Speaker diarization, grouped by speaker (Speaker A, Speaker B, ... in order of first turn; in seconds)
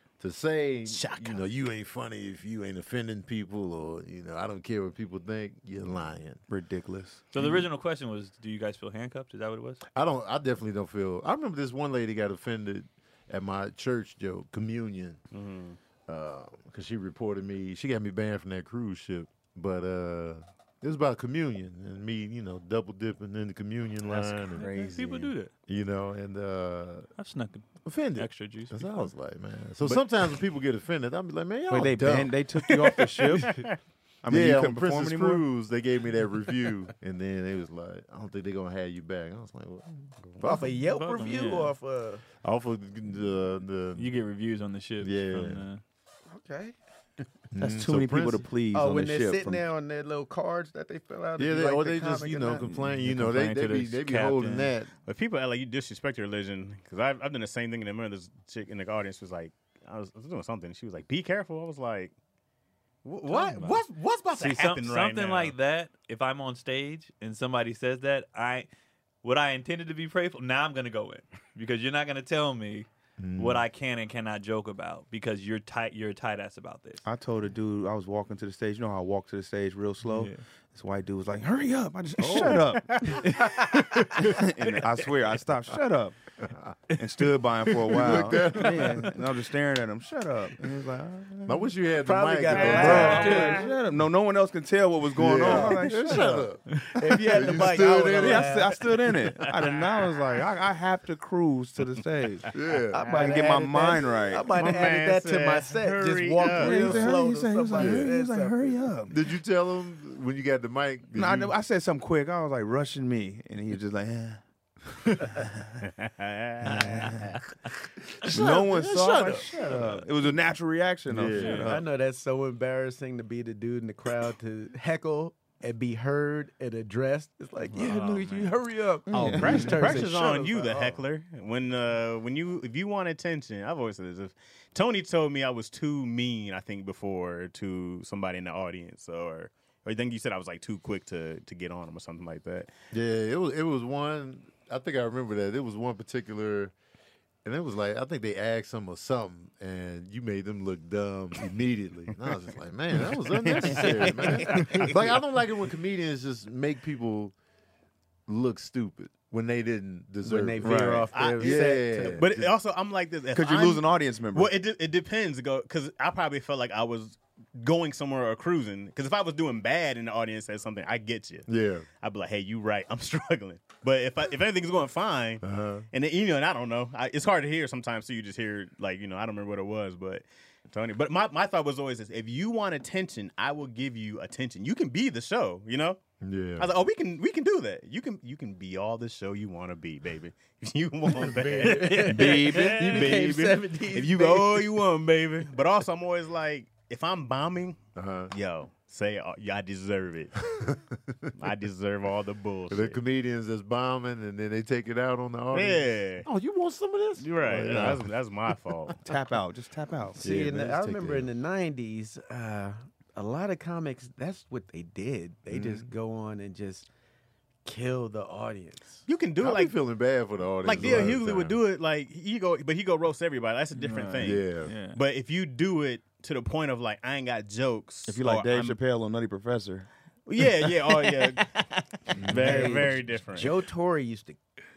Speaker A: 0.2-6.4, 7.4-7.7, 9.9-15.2, 16.1-24.7, 25.7-27.1, 27.9-32.4, 34.3-40.8, 42.4-44.1, 45.0-45.6, 47.5-48.5, 51.4-54.9, 73.2-73.7, 82.2-82.8, 86.4-86.7, 87.8-89.1, 91.5-93.6, 95.2-96.6, 97.3-98.6, 102.5-103.0, 107.8-108.1, 109.1-111.5, 118.2-119.9, 121.1-121.7, 142.9-146.7, 147.4-157.3, 158.3-162.5, 171.5-171.9, 175.4-175.9, 186.2-186.7, 198.0-198.3, 200.6-201.3, 202.7-208.1, 210.2-211.3, 215.5-215.9, 219.4-221.6, 224.2-224.7, 232.2-232.7
Speaker B: 0.9-1.4, 15.3-15.8, 24.6-24.9, 32.8-33.8, 55.1-62.1, 63.0-65.5, 82.4-83.7, 92.7-93.7, 103.2-103.4, 104.5-107.1, 115.8-117.3, 129.1-142.7, 161.1-171.5, 172.0-186.0, 186.6-200.4, 201.4-203.0, 205.5-206.3, 207.2-209.0, 219.1-219.8, 220.6-228.8, 230.3-233.6
Speaker C: 6.5-7.2, 24.6-25.0, 31.7-33.7, 34.2-35.4, 47.6-49.6, 77.0-83.5, 84.1-86.2, 87.0-91.7, 92.5-96.5, 97.3-102.5, 103.0-104.5, 106.5-109.2, 111.2-114.4, 114.9-115.7, 116.6-117.4, 118.2-121.8, 129.1-130.0, 153.3-154.9, 160.6-161.1, 163.3-164.5, 192.0-193.3, 209.0-210.3, 228.1-229.9, 230.4-231.5
Speaker D: 7.3-9.8, 24.6-25.5, 27.2-29.1, 40.9-41.7, 44.0-45.8, 53.1-54.8, 63.3-68.7, 69.2-77.0, 80.0-80.4, 88.8-89.1, 99.5-99.9, 119.7-120.0, 121.3-121.7, 127.7-128.5, 223.8-225.0
Speaker E: 40.4-42.2, 46.3-46.8, 48.7-52.7, 92.0-93.7, 97.0-98.9, 102.9-108.8, 121.5-131.0, 153.8-154.9, 160.2-162.3, 191.2-194.7, 210.2-216.9, 217.7-219.0, 232.3-234.4